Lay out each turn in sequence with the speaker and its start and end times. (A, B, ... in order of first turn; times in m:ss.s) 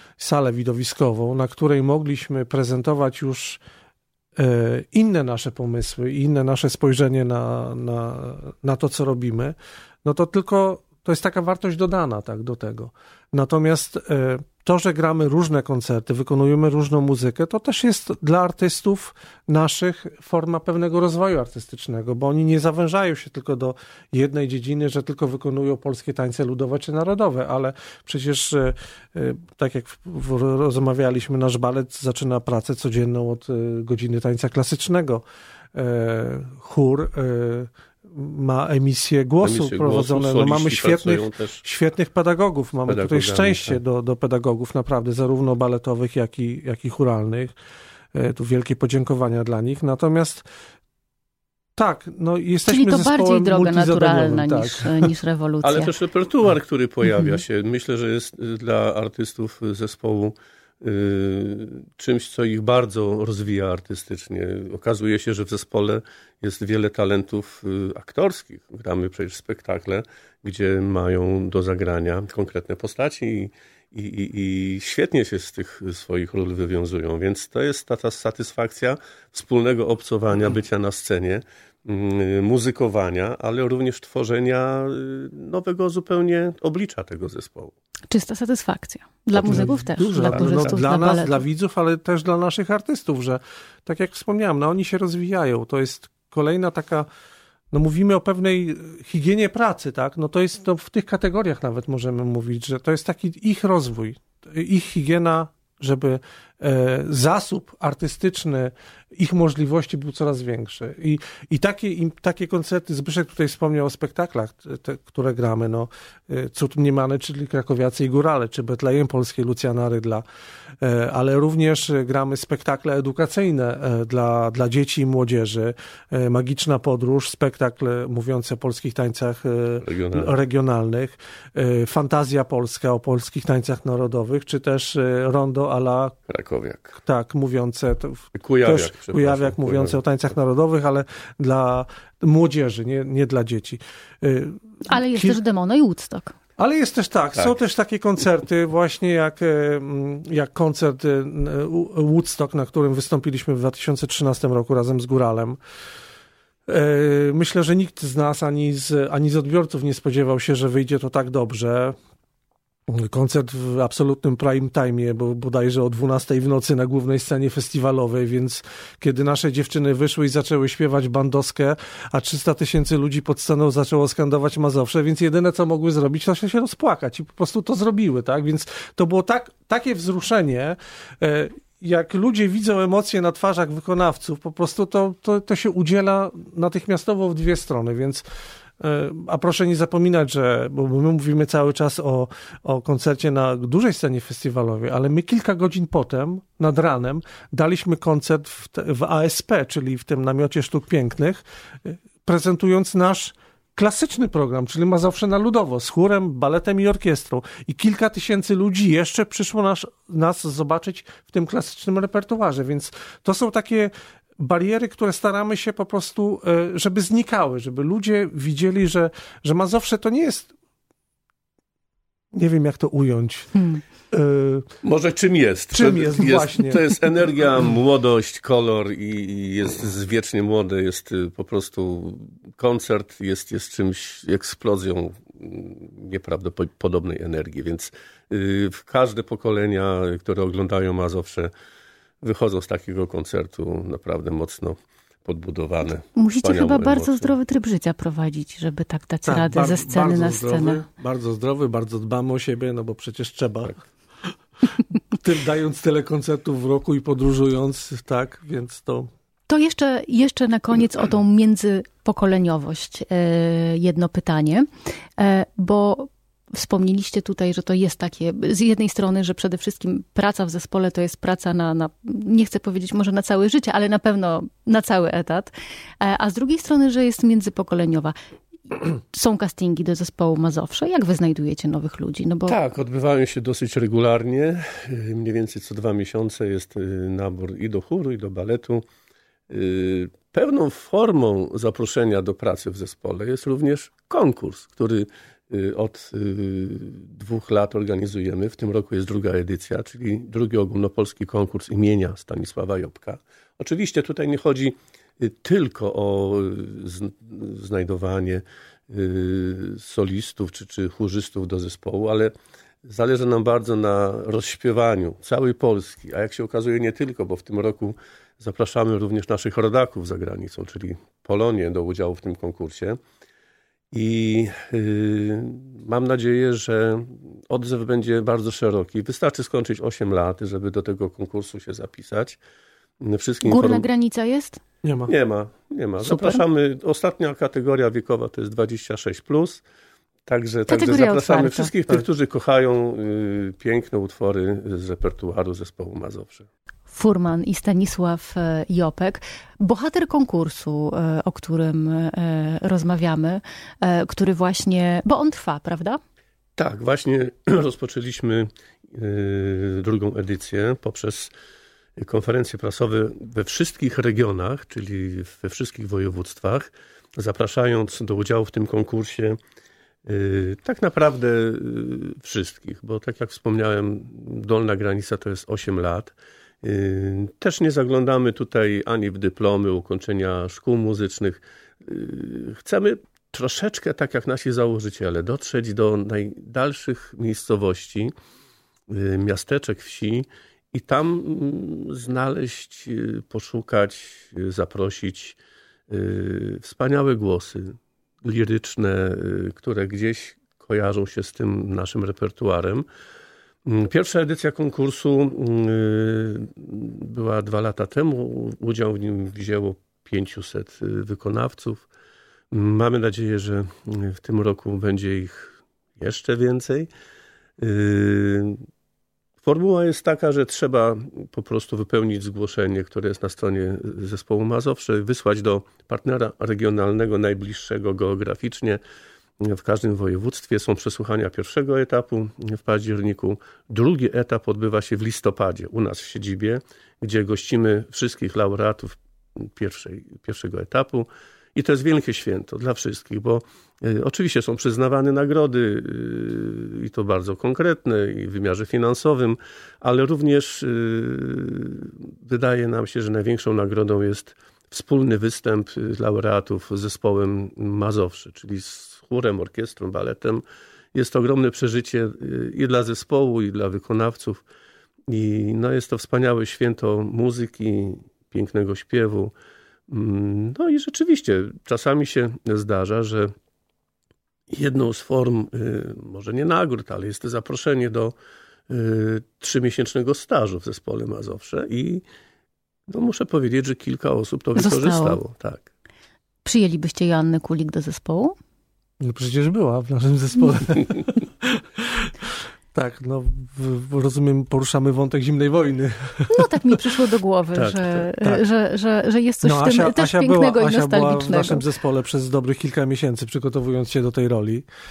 0:00.2-0:03.6 A
0:04.4-0:47.5 A
0:39.4-0:41.6 B
0:42.9-0:43.8 B
0:48.1-0:50.4 A
0:51.8-0:55.1 A
0:52.7-0:55.9 C
0:55.6-1:27.7 B
1:28.1-1:31.4 C
1:29.3-1:30.8 B
1:29.4-1:37.1 A
1:37.7-2:00.2 A
2:00.8-2:16.2 A
2:09.8-2:10.3 B
2:16.3-2:17.0 B
2:17.0-2:25.4 A
2:18.3-2:20.0 B
2:24.8-2:26.3 C
2:26.6-2:35.6 A
2:36.7-2:42.0 A
2:42.9-3:08.2 A
3:08.8-3:40.5 A
3:42.3-3:44.7 A
3:44.8-4:01.5 B
3:45.7-3:46.9 A
4:02.2-4:07.4 B
4:06.2-4:10.8 C
4:09.2-4:13.7 A
4:14.6-4:19.1 A
4:19.5-4:38.1 C
4:38.7-4:42.6 C
4:42.5-4:48.8 B
4:49.5-5:23.0 B
5:23.9-5:32.4 B
5:33.0-5:33.8 B
5:33.4-5:34.6 C
5:34.8-5:35.1 A
5:35.1-5:39.6 B
5:36.1-5:36.3 C
5:40.2-5:46.5 B
5:40.7-5:41.7 C
5:46.9-5:56.0 C
5:56.6-6:01.3 B
6:02.0-6:09.4 B
6:10.0-6:28.1 B
6:28.9-6:35.4 B
6:35.9-6:42.8 B
6:43.6-6:51.8 B
6:52.5-6:56.9 B
6:57.6-6:58.6 B
6:59.4-7:08.8 B
7:09.4-7:40.4 B
7:40.9-7:44.4 B
7:45.1-7:49.3 B
7:49.9-7:53.3 B
7:54.5-7:58.1 B
7:58.7-8:02.0 B
8:02.9-8:05.7 B
8:04.6-8:05.2 C
8:06.4-8:08.3 C
8:09.0-8:16.5 A
8:16.3-8:21.6 C
8:17.5-8:18.0 B
8:19.4-8:24.6 A